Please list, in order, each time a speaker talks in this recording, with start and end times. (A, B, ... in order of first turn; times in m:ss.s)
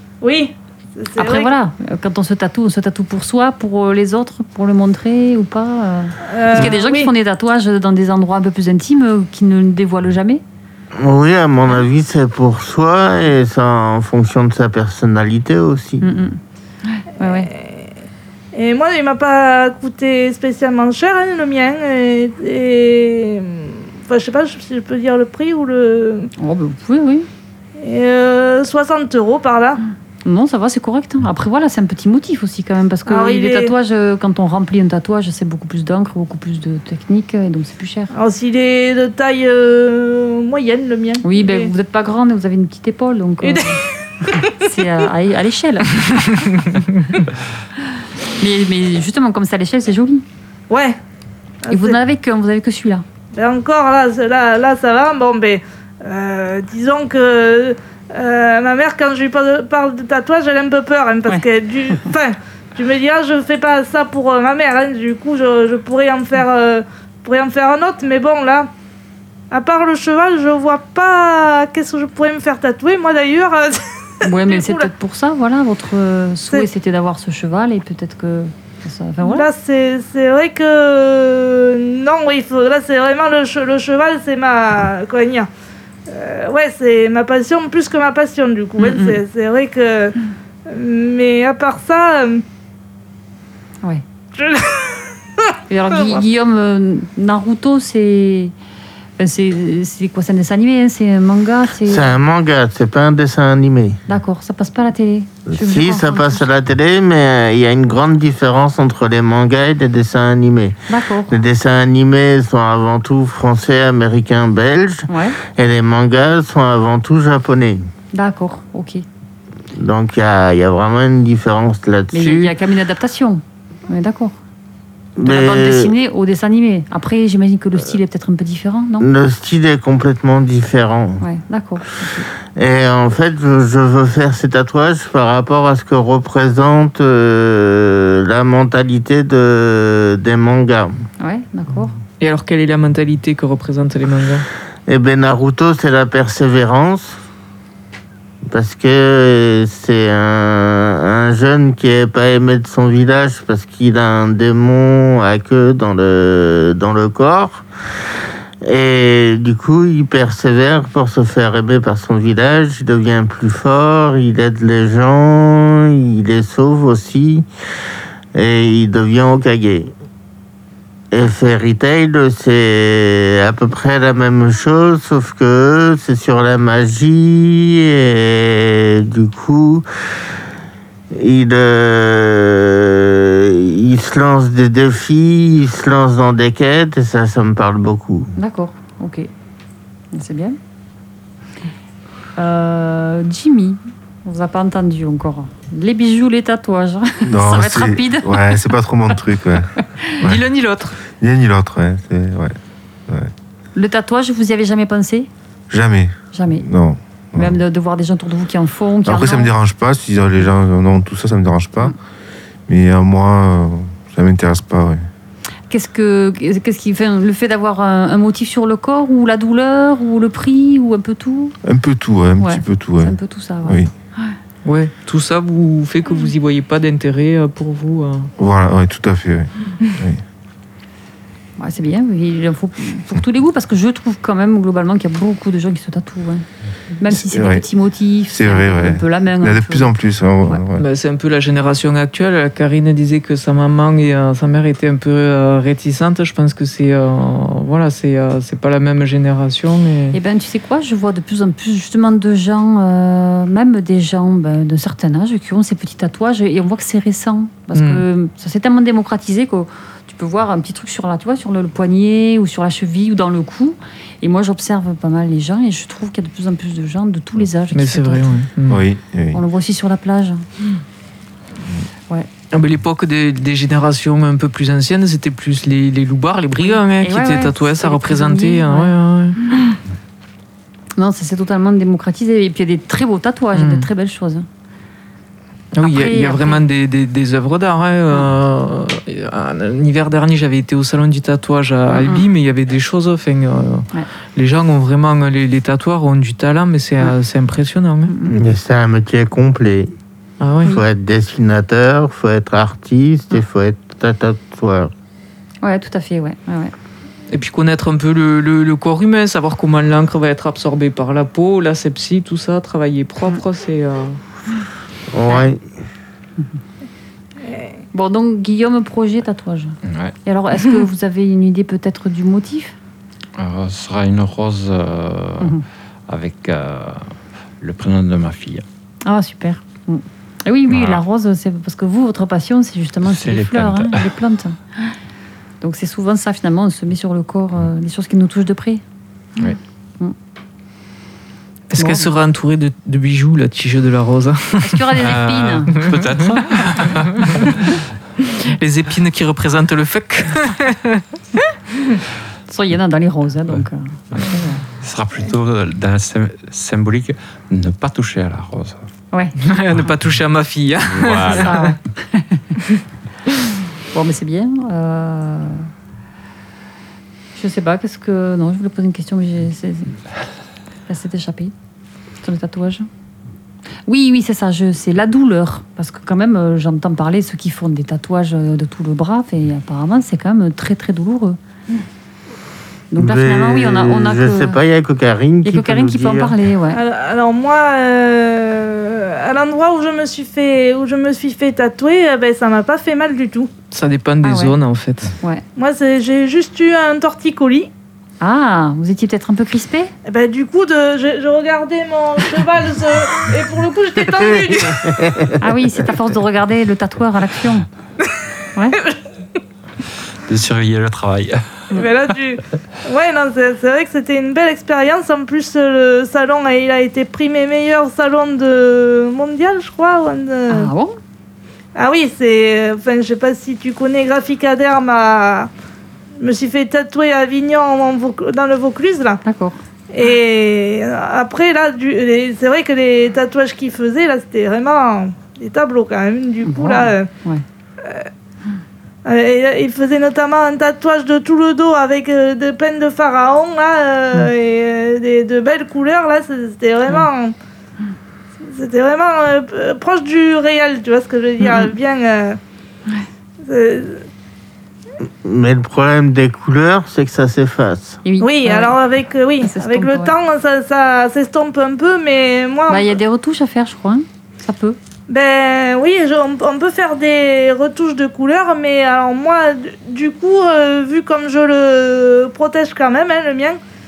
0:00.2-0:01.5 A
0:01.2-0:10.4 B
0:06.3-0:07.1 A
0:11.0-0:16.0 C
0:16.0-0:17.5 B
0:17.2-0:17.9 A
0:18.5-0:26.3 A
0:26.4-0:27.3 B
0:27.8-0:29.8 A
0:30.2-0:38.1 B
0:33.1-0:33.7 A
0:38.1-0:41.7 A
0:41.2-0:46.6 B
0:43.4-0:44.7 A
0:48.4-0:50.2 B
0:50.7-0:51.0 A
0:51.7-0:52.0 A
0:51.7-0:53.0 B
0:53.4-1:08.7 A
1:09.5-1:14.9 A
1:14.2-1:19.5 B
1:19.2-1:25.5 A
1:26.1-1:32.4 A
1:28.8-1:29.2 B
1:34.4-1:36.2 A
1:35.7-1:38.5 B
1:39.2-1:42.1 B
1:41.9-1:44.0 C
1:44.1-1:46.5 B
1:45.5-1:57.9 C
1:50.9-1:51.4 B
1:55.1-1:55.4 B
1:58.1-1:59.0 B
1:59.8-2:02.5 C
2:02.1-2:04.4 B
2:05.2-2:05.9 C
2:05.2-2:09.1 B
2:09.0-2:11.2 C
2:11.2-2:12.3 B
2:12.6-2:20.9 C
2:21.2-2:22.0 B
2:22.2-2:24.5 D
2:24.9-2:27.2 C
2:28.5-2:37.7 C
2:38.6-2:47.5 C
2:48.4-2:49.9 C
2:51.1-2:59.9 C
3:01.1-3:08.3 C
3:08.4-3:09.3 B
3:10.1-3:10.6 B
3:12.4-3:18.6 B
3:17.2-3:20.4 E
3:20.2-3:21.0 D
3:21.2-3:22.6 E
3:23.8-3:25.3 B
3:25.7-3:27.6 E
3:26.3-3:26.7 B
3:27.4-3:29.5 B
3:29.0-3:32.0 E
3:32.7-3:35.0 E
3:35.7-3:41.6 B
3:41.6-3:43.9 E
3:42.4-3:44.4 B
3:44.6-3:48.3 D
3:48.4-3:50.2 E
3:51.6-3:56.5 B
3:57.0-3:59.9 B
3:57.1-3:57.7 E
3:58.3-4:00.8 E
4:00.8-4:10.2 D
4:10.1-4:28.4 B
4:17.7-4:18.0 D
4:27.7-4:28.8 D
4:28.7-4:29.4 E
4:29.3-4:30.4 B
4:32.5-4:39.6 D
4:36.6-4:39.7 B
4:41.0-4:44.5 B
4:43.6-4:43.9 D
4:45.7-4:58.1 D
4:45.8-4:46.6 B
4:51.9-4:52.3 B
4:58.1-4:58.4 B
4:58.3-4:59.9 C
5:00.4-5:00.8 D
5:00.6-5:04.9 C
5:05.6-5:06.7 B
5:07.3-5:14.2 D
5:15.1-5:15.6 C
5:17.9-5:22.8 B
5:19.8-5:20.2 F
5:23.4-5:25.6 F
5:26.1-5:28.6 F
5:29.0-5:35.0 B
5:30.7-5:31.0 F
5:33.0-5:34.1 F
5:35.6-5:38.8 B
5:41.7-5:45.0 D
5:41.8-5:42.1 B
5:44.6-5:45.8 B
5:45.0-5:47.8 F
5:45.8-5:47.8 D
5:48.4-5:51.5 D
5:52.5-5:54.6 B
5:54.8-5:58.9 F
5:59.1-5:59.9 B
5:59.4-6:01.8 D
6:00.9-6:01.6 F
6:01.1-6:02.6 B
6:03.9-6:05.7 B
6:07.4-6:10.0 B
6:10.9-6:11.5 B
6:12.2-6:12.9 B
6:13.9-6:21.4 B
6:22.9-6:24.6 B
6:23.0-6:26.4 C
6:25.4-6:26.8 B
6:26.7-6:33.5 A
6:33.7-6:35.2 D
6:34.2-6:34.6 B
6:35.6-6:37.7 A
6:38.2-6:39.9 B
6:40.1-6:45.0 A
6:44.6-6:45.4 C
6:45.4-6:47.7 B
6:48.6-6:48.8 B
6:50.3-6:51.7 F
6:51.7-7:00.7 A
7:00.5-7:01.0 B
7:01.8-7:05.5 A
7:06.2-7:09.2 A
7:09.2-7:09.6 B
7:09.9-7:17.1 A
7:16.4-7:17.4 B
7:17.8-7:18.1 A
7:19.0-7:27.4 A
7:28.4-7:32.4 A
7:31.4-7:31.7 B
7:33.4-7:34.1 A
7:35.2-7:38.0 C
7:38.0-7:38.8 B
7:38.2-7:43.0 A
7:39.4-7:40.1 B
7:42.7-7:44.8 B
7:45.1-7:53.6 A